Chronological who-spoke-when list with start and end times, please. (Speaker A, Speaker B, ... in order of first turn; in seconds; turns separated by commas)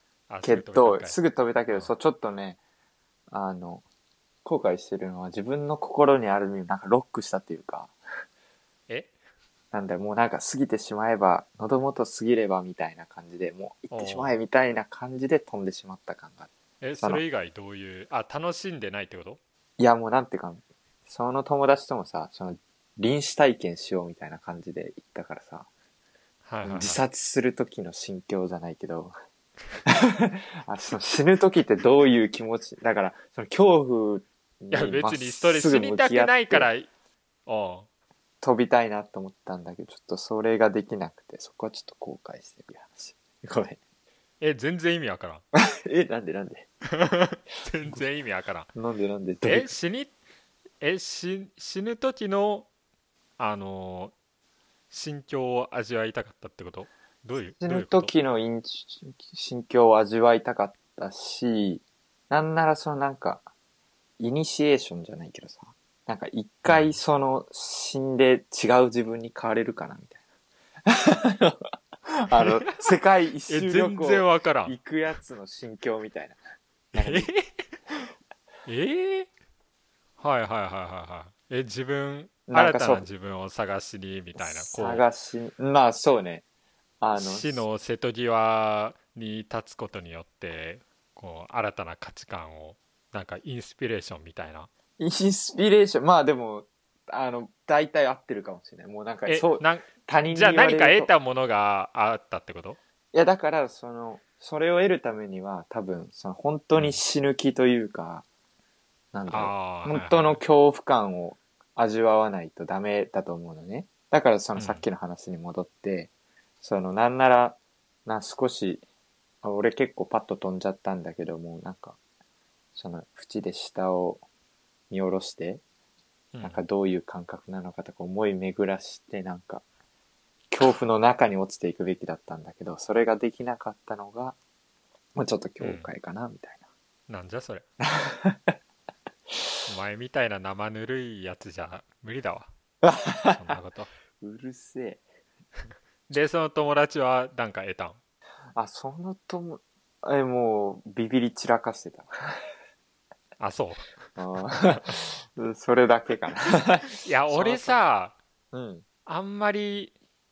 Speaker A: 0.3-1.2, Speaker B: 0.4-2.6, Speaker B: 3.3-3.8, Speaker B: 4.4-7.9, Speaker B: 9.7-17.2, Speaker A: 13.9-14.3, Speaker A: 16.8-19.4, Speaker B: 19.8-25.7, Speaker A: 26.4-27.0, Speaker B: 26.6-29.1, Speaker B: 29.9-36.7, Speaker A: 34.7-36.9, Speaker A: 37.5-37.9, Speaker B: 38.4-43.8, Speaker A: 44.4-45.4, Speaker B: 45.5-46.7, Speaker A: 47.0-48.7, Speaker B: 48.7-49.8, Speaker A: 49.4-50.1, Speaker A: 50.8-52.7, Speaker A: 53.4-54.1, Speaker A: 54.9-58.1, Speaker B: 57.6-63.5, Speaker B: 64.2-70.2, Speaker A: 66.7-67.0, Speaker B: 70.9-76.4, Speaker A: 72.3-72.8, Speaker A: 73.5-74.7, Speaker B: 76.9-77.3, Speaker A: 76.9-77.4, Speaker A: 78.7-79.3, Speaker A: 80.2-85.0, Speaker B: 82.5-83.1, Speaker B: 84.3-86.4, Speaker B: 87.0-87.6, Speaker A: 87.2-94.7, Speaker B: 95.0-101.1, Speaker A: 99.3-102.8, Speaker B: 103.1-108.2, Speaker B: 109.1-118.8, Speaker A: 109.3-110.4, Speaker A: 114.5-114.8, Speaker B: 119.4-122.0, Speaker B: 122.7-124.2, Speaker B: 124.9-125.6, Speaker A: 126.3-126.6, Speaker B: 126.4-129.6, Speaker B: 130.5-134.4, Speaker B: 135.2-136.6, Speaker A: 135.6-135.8, Speaker A: 137.1-137.6, Speaker B: 137.8-138.5, Speaker A: 139.7-142.5, Speaker B: 142.8-143.5, Speaker A: 143.2-143.9, Speaker B: 144.2-145.0, Speaker A: 146.1-148.0, Speaker B: 148.6-152.4, Speaker A: 153.4-153.9, Speaker B: 154.2-157.8, Speaker A: 157.0-158.2, Speaker B: 158.5-158.8, Speaker A: 159.1-159.9